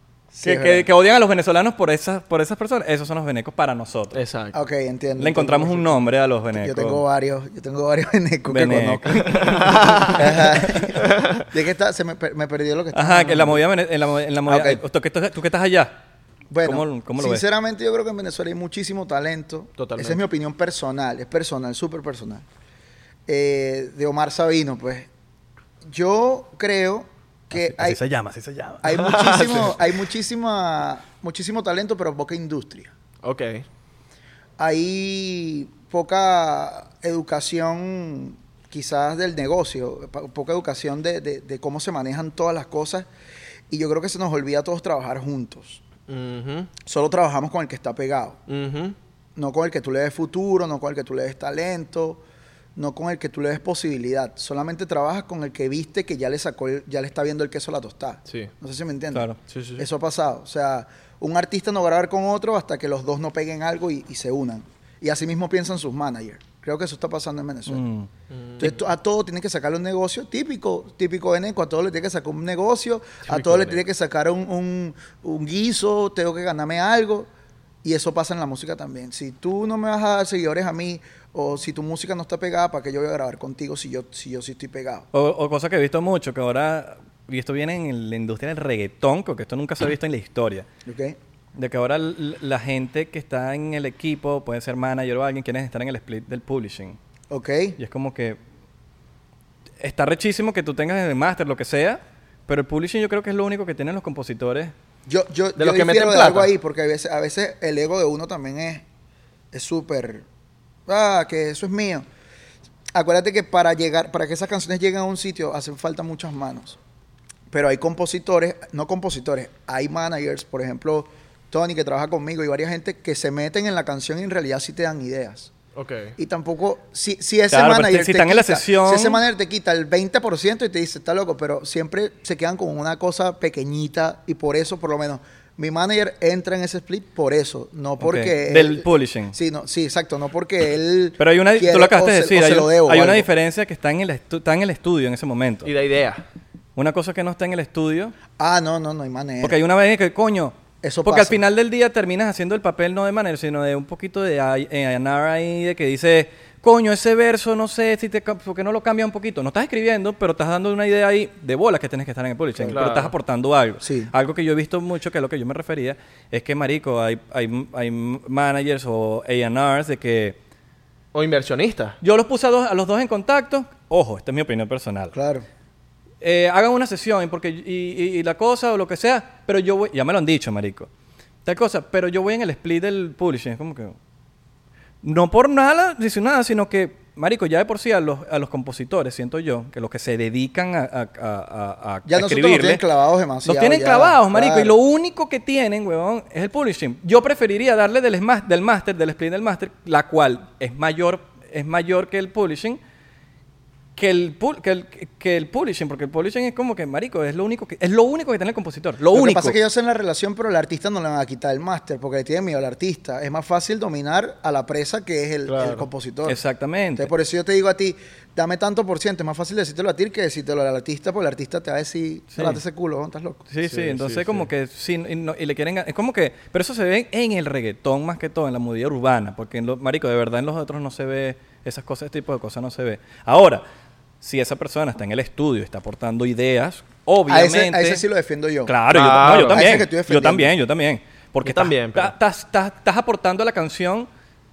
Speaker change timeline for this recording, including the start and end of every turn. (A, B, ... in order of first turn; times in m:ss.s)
0:00.3-0:00.9 A
0:00.4-0:04.2 B
0:04.1-0:04.5 C
0:04.5-0:06.0 A
0:05.2-0:07.0 B
0:06.5-0:13.6 A
0:08.4-0:10.1 B
0:09.3-0:10.4 C
0:10.6-0:10.9 B
0:10.9-0:11.4 C
0:12.9-0:16.0 B
0:14.4-0:14.8 A
0:16.5-0:22.4 A
0:16.6-0:17.4 B
0:19.8-0:20.2 C
0:23.3-0:25.1 A
0:25.8-0:28.0 A
0:27.5-0:29.7 B
0:28.8-0:32.9 A
0:28.9-0:29.8 C
0:33.2-0:33.6 C
0:34.6-0:43.0 A
0:43.7-0:45.8 A
0:46.1-0:46.7 C
0:46.8-0:48.4 A
0:48.5-0:49.0 C
0:49.4-0:52.2 A
0:52.8-1:07.8 A
0:59.1-0:59.4 B
0:59.5-0:59.8 C
1:07.7-1:08.1 B
1:08.3-1:08.8 C
1:08.6-1:17.3 A
1:13.3-1:13.8 C
1:17.8-1:25.0 A
1:25.1-1:30.7 B
1:30.8-1:31.2 A
1:31.5-1:37.0 B
1:37.3-1:37.8 A
1:37.8-1:38.4 B
1:39.8-1:44.7 B
1:45.1-1:48.8 A
1:45.6-1:46.5 C
1:49.5-1:50.2 A
1:50.9-1:52.0 A
1:52.9-1:56.8 A
1:57.5-2:05.5 A
2:05.7-2:06.1 C
2:06.2-2:23.3 A
2:07.5-2:09.2 B
2:18.0-2:19.4 B
2:21.2-2:25.7 B
2:25.6-2:26.2 C
2:26.8-2:28.1 B
2:28.4-2:29.6 A
2:29.4-2:50.4 B
2:30.8-2:31.4 A
2:42.7-2:43.1 C
2:43.8-2:44.1 A
2:51.1-2:52.0 C
2:52.0-2:55.1 B
2:55.1-2:55.4 A
2:56.2-3:00.9 B
3:01.4-3:04.0 B
3:05.0-3:12.8 B
3:12.0-3:14.7 A
3:13.4-3:22.8 B
3:24.0-3:29.6 B
3:29.1-3:36.4 A
3:35.5-3:35.8 C
3:36.2-3:37.1 B
3:37.0-3:43.4 A
3:42.3-3:42.6 B
3:43.5-3:53.6 B
3:43.6-3:44.5 C
3:54.2-3:58.0 B
3:57.3-3:58.7 A
3:58.6-4:04.1 B
3:58.9-3:59.8 C
3:59.4-4:00.5 A
4:01.4-4:02.1 C